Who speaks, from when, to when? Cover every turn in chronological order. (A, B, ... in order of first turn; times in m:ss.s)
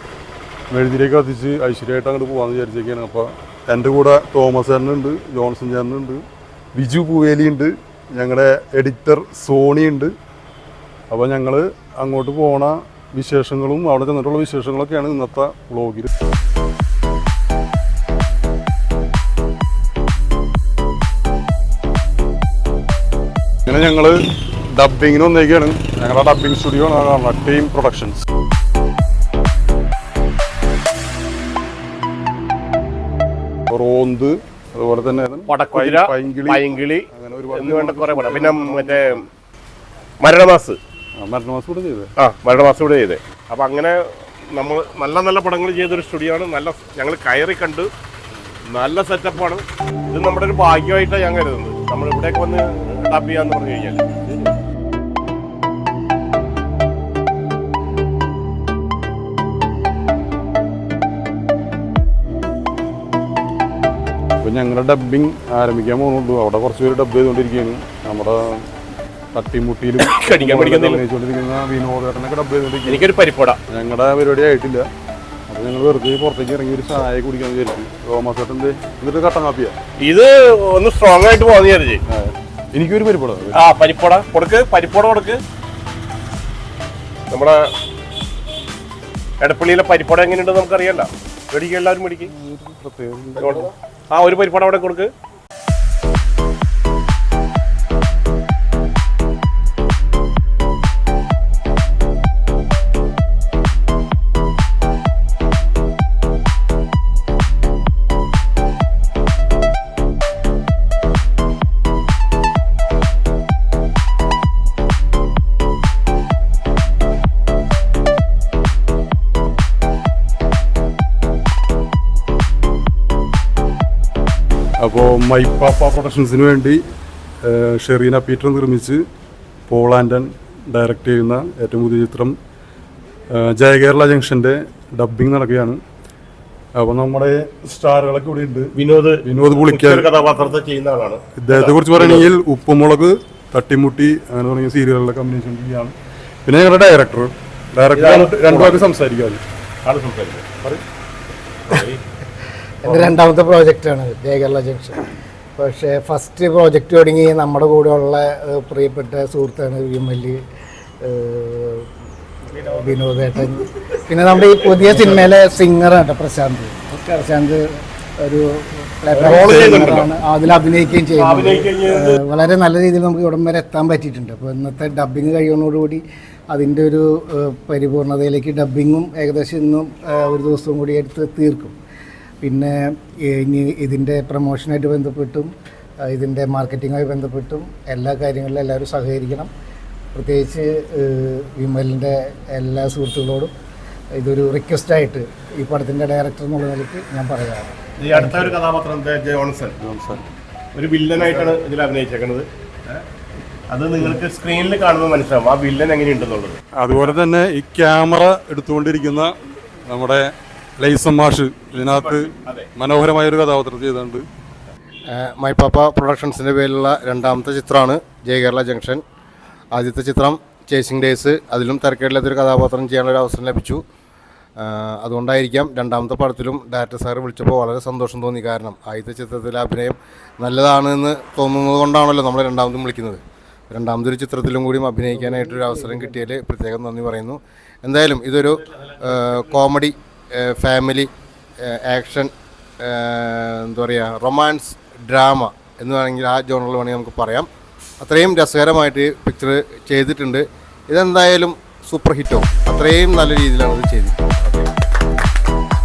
0:00.7-0:10.1 A
0:11.1-0:16.1 A
0:23.6-0:24.2 A
0:24.7-0:28.2 A
0:33.7-0:39.2 A
0:35.5-0:39.2 B
0:40.2-0:40.8 B
0:41.2-0:42.1 A
0:42.2-0:47.9 B
0:48.7-0:54.5 B
1:04.4-1:08.6 A
1:09.3-1:13.1 A
1:10.0-1:11.0 B
1:12.9-1:13.6 B
1:13.7-1:14.9 A
1:15.5-1:19.8 A
1:20.0-1:22.0 B
1:22.1-1:23.6 A
1:23.5-1:25.4 B
1:27.3-1:27.6 B
1:29.4-1:32.3 B
1:32.2-1:33.7 A
1:33.4-1:35.1 B
2:04.8-2:06.8 A
2:07.4-2:09.0 A
2:09.7-2:12.3 A
2:13.3-2:15.8 A
2:16.8-2:18.7 A
2:18.8-2:22.3 B
2:19.2-2:20.1 A
2:21.4-2:25.9 A
2:26.4-2:29.4 A
2:27.9-2:28.9 B
2:29.8-2:30.5 B
2:31.6-2:32.0 B
2:32.8-2:40.4 C
2:41.0-2:41.9 C
2:42.5-3:01.8 C
2:49.2-2:50.1 B
2:49.2-2:50.1 A
2:51.1-2:52.2 B
3:02.4-3:05.5 C
3:06.0-3:09.5 C
3:10.1-3:13.5 C
3:14.2-3:18.6 C
3:18.0-3:19.8 B
3:19.8-3:20.2 A
3:20.7-3:23.0 B
3:23.7-3:26.6 B
3:26.8-3:29.3 A
3:29.9-3:30.2 A
3:30.8-3:34.2 A
3:31.9-3:32.7 B
3:35.1-3:39.0 D
3:39.7-3:43.8 D
3:44.6-4:01.1 D
3:55.0-3:56.3 C
4:01.6-4:07.5 D
4:08.0-4:14.6 D